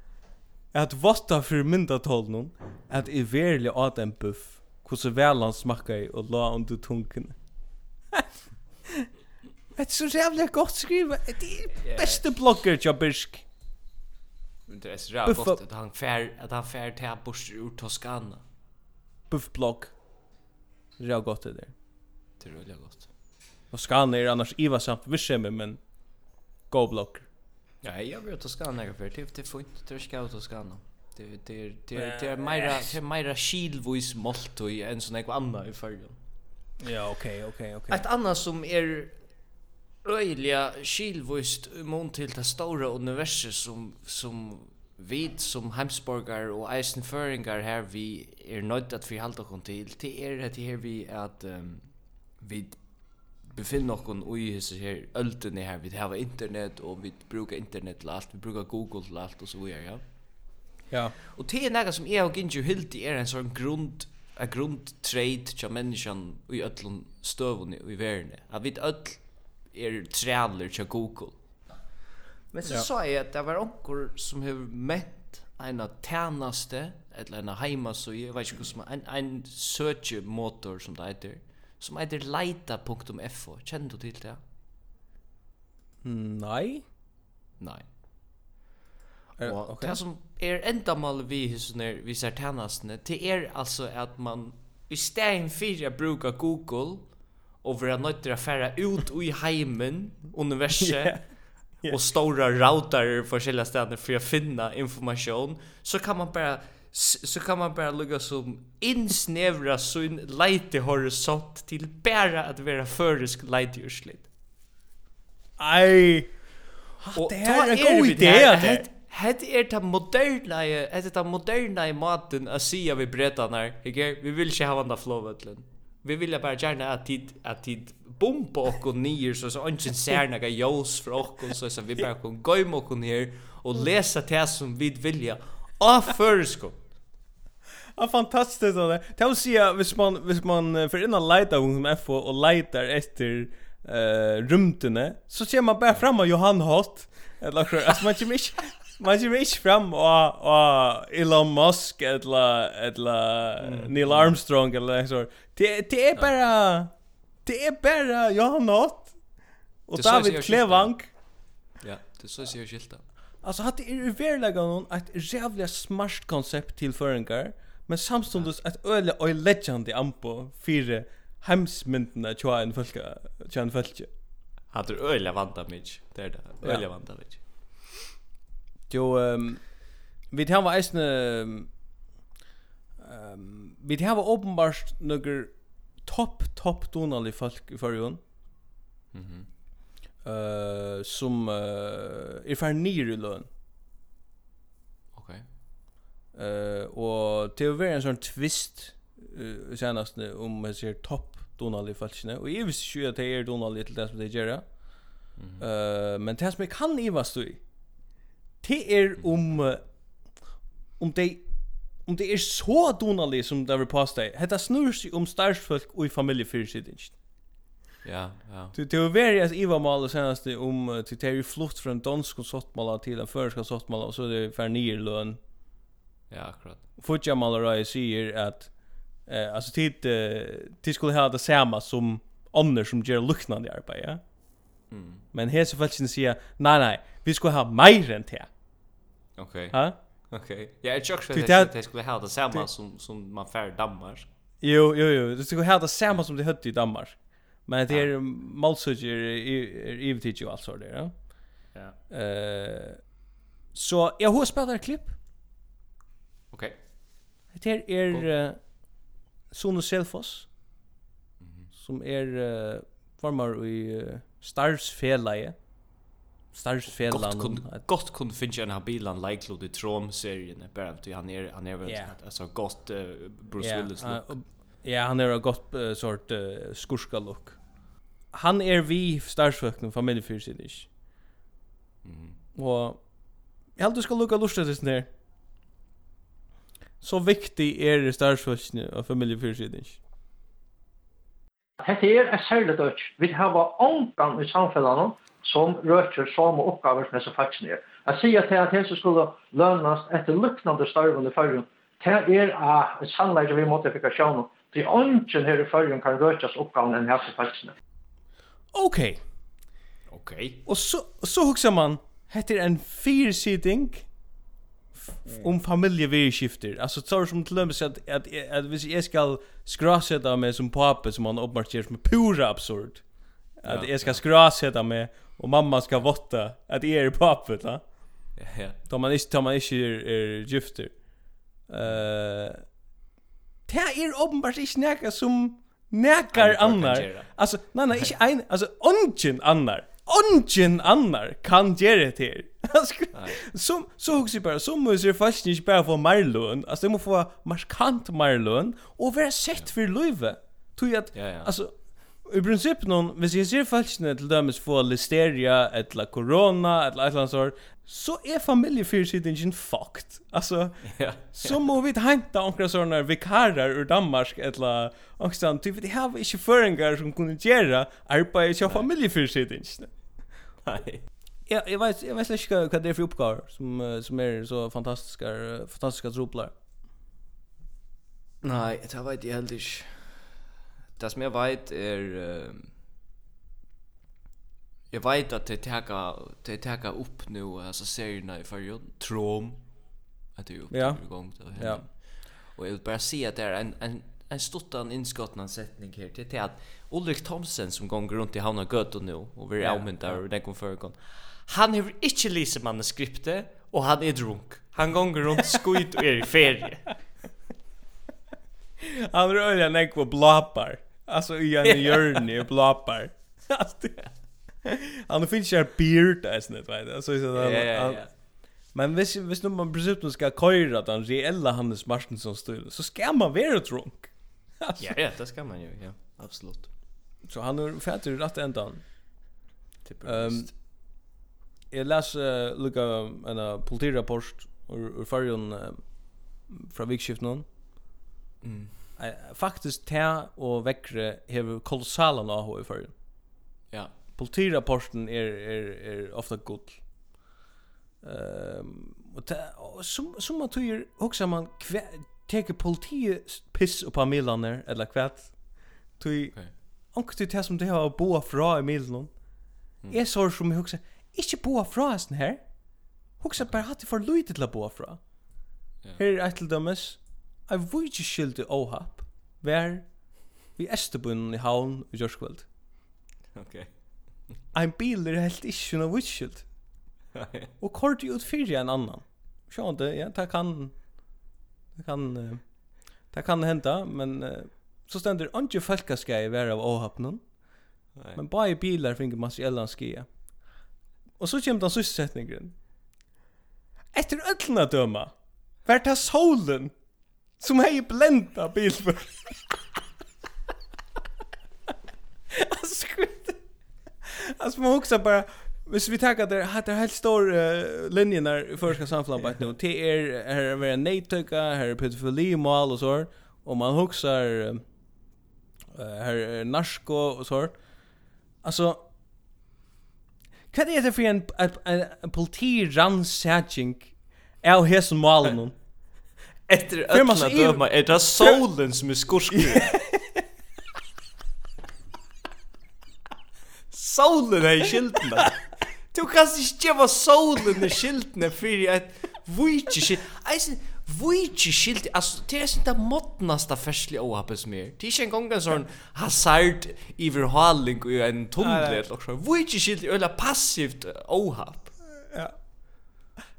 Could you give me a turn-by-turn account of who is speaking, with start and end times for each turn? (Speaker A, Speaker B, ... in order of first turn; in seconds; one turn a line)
Speaker A: 0.7-7.3
Speaker A: 9.7-13.4
Speaker B: 11.8-12.3
Speaker B: 14.7-18.4
Speaker A: 15.2-15.6
Speaker A: 19.3-19.9
Speaker A: 21.0-21.7
Speaker B: 22.4-23.1
Speaker A: 23.7-25.8
Speaker A: 26.7-27.3
Speaker B: 27.8-36.2
Speaker A: 31.9-32.9
Speaker A: 36.8-38.0
Speaker B: 37.9-39.1
Speaker B: 40.0-51.9
Speaker B: 52.4-52.8
Speaker B: 53.5-60.0
Speaker B: 61.2-71.4
Speaker B: 72.5-84.4
Speaker A: 86.0-86.8
Speaker B: 87.6-87.8
Speaker A: 89.4-90.0
Speaker B: 89.4-97.1
Speaker B: 97.6-101.2
Speaker A: 100.8-101.2
Speaker B: 101.8-114.3
Speaker A: 115.6-116.3
Speaker A: 117.0-118.8
Speaker B: 117.1-136.8
Speaker A: 138.0-156.9
Speaker B: 153.6-154.4
Speaker A: 157.4-159.2
Speaker A: 159.9-161.1
Speaker B: 159.9-160.9
Speaker B: 161.8-163.0
Speaker A: 163.4-174.1
Speaker B: 174.7-177.8
Speaker A: 178.9-181.7
Speaker A: 183.0-188.2
Speaker B: 189.1-189.5
Speaker A: 190.2-193.5
Speaker B: 195.1-195.4
Speaker A: 196.3-204.6
Speaker B: 205.4-205.6
Speaker A: 205.6-207.6
Speaker A: 208.6-209.8
Speaker A: 211.0-211.4
Speaker A: 212.0-217.1
Speaker B: 218.0-218.7
Speaker A: 218.7-225.4
Speaker B: 226.3-226.8
Speaker A: 227.0-228.7
Speaker A: 229.3-234.2
Speaker B: 234.9-235.2
Speaker A: 235.3-238.5
Speaker B: 239.4-239.8
Speaker B: 240.3-244.3
Speaker A: 241.3-241.7
Speaker A: 244.6-251.1
Speaker A: 252.1-253.0
Speaker A: 253.7-255.1
Speaker B: 256.5-256.8
Speaker A: 257.5-258.6
Speaker A: 259.5-260.5
Speaker B: 261.4-261.7
Speaker A: 261.8-265.6
Speaker A: 266.5-267.8
Speaker B: 266.9-274.4
Speaker A: 271.9-272.1
Speaker A: 273.6-277.6
Speaker A: 278.3-280.9
Speaker B: 282.0-282.4
Speaker A: 282.5-283.0
Speaker A: 283.8-285.1
Speaker A: 287.0-290.0
Speaker C: 291.8-307.7
Speaker A: 308.7-309.2
Speaker B: 310.1-310.6
Speaker A: 310.6-314.1
Speaker A: 314.9-323.0
Speaker A: 323.6-327.8
Speaker B: 323.6-324.2
Speaker B: 328.4-328.8
Speaker A: 328.9-330.9
Speaker A: 331.7-332.6
Speaker A: 333.7-369.9
Speaker B: 336.3-337.3
Speaker B: 343.1-343.4
Speaker B: 351.1-351.5
Speaker B: 360.8-361.6
Speaker B: 370.6-371.0
Speaker A: 371.5-376.5
Speaker B: 378.4-380.2
Speaker B: 381.0-382.7
Speaker B: 384.9-389.6
Speaker B: 390.4-406.9
Speaker A: 390.7-391.8
Speaker A: 399.6-400.2
Speaker A: 408.8-414.1
Speaker B: 411.6-412.2
Speaker A: 414.6-418.1
Speaker B: 417.3-418.1
Speaker A: 418.7-424.9
Speaker B: 424.8-426.7
Speaker A: 427.2-428.8
Speaker B: 429.8-430.5
Speaker A: 430.0-430.5
Speaker A: 431.7-435.8
Speaker A: 436.5-437.4
Speaker B: 438.4-438.7
Speaker A: 439.0-442.9
Speaker A: 444.2-446.8
Speaker A: 448.0-455.4
Speaker A: 456.0-456.3
Speaker A: 456.9-459.1
Speaker A: 459.9-462.4
Speaker A: 463.2-465.0
Speaker A: 466.0-469.9
Speaker A: 470.5-472.5
Speaker B: 473.3-473.7
Speaker A: 474.5-476.4
Speaker B: 477.1-477.5
Speaker A: 477.6-480.7
Speaker A: 481.8-482.4
Speaker A: 483.1-487.2
Speaker A: 488.1-490.1
Speaker A: 491.2-492.5
Speaker A: 493.9-495.1
Speaker A: 495.6-496.7
Speaker A: 497.4-499.6
Speaker A: 502.3-503.4
Speaker A: 504.0-514.6
Speaker A: 515.7-517.6
Speaker A: 518.4-518.8
Speaker A: 520.5-525.5
Speaker B: 526.5-529.8
Speaker A: 526.9-527.6
Speaker A: 529.4-530.2
Speaker B: 533.7-535.4
Speaker B: 535.9-551.7
Speaker A: 548.4-548.8